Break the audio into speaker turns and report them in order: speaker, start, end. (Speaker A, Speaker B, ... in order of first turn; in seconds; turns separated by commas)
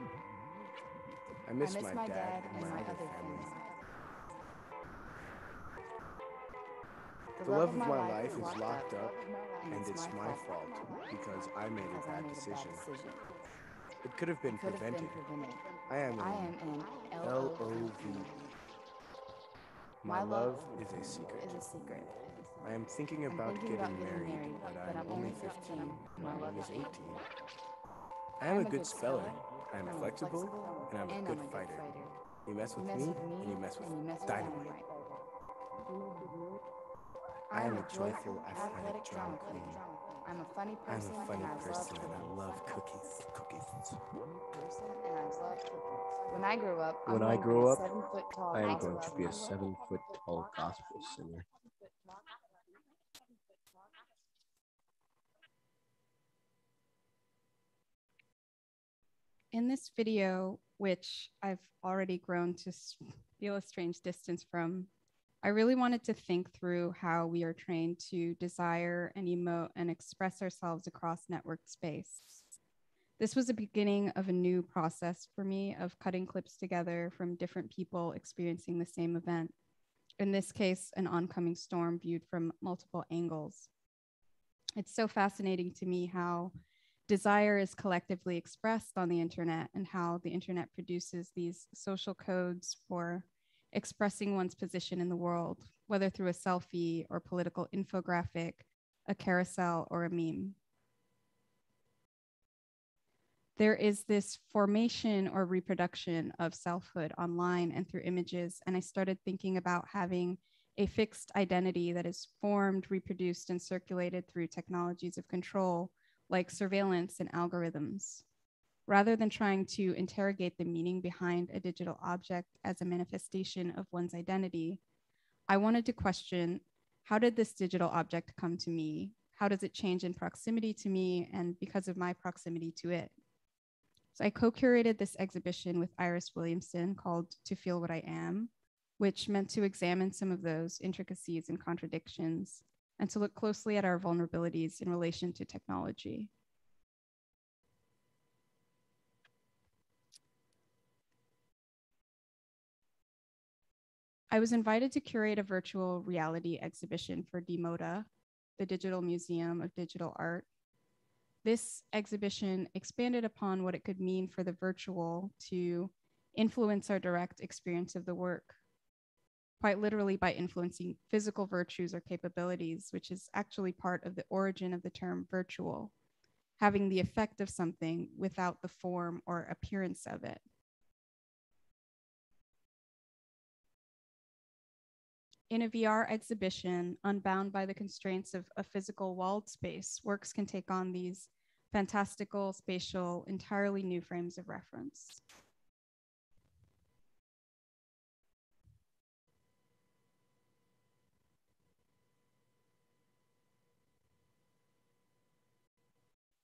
Speaker A: 1.4-3.6, Speaker B: 1.5-3.8, Speaker B: 7.4-13.3, Speaker A: 7.4-9.2, Speaker A: 9.7-12.8, Speaker A: 14.0-15.2, Speaker B: 14.5-18.5, Speaker A: 15.9-16.6, Speaker A: 17.2-18.3, Speaker A: 20.0-22.1, Speaker B: 20.0-27.2, Speaker A: 22.6-27.2, Speaker A: 28.4-34.7, Speaker B: 28.4-32.2, Speaker B: 32.7-35.3, Speaker B: 37.5-43.3, Speaker A: 37.5-39.8, Speaker A: 40.9-44.0, Speaker B: 44.3-50.9, Speaker A: 47.0-47.9, Speaker A: 48.5-51.5, Speaker C: 59.5-64.9, Speaker C: 65.4-72.5, Speaker C: 73.2-79.5, Speaker C: 80.2-83.7, Speaker C: 84.8-86.5, Speaker C: 87.1-100.6, Speaker C: 103.6-118.2, Speaker C: 118.9-124.8, Speaker C: 125.5-133.1, Speaker C: 134.2-146.3, Speaker C: 154.3-160.5, Speaker C: 161.4-168.6, Speaker C: 169.6-175.9, Speaker C: 176.6-180.4, Speaker C: 185.5-195.2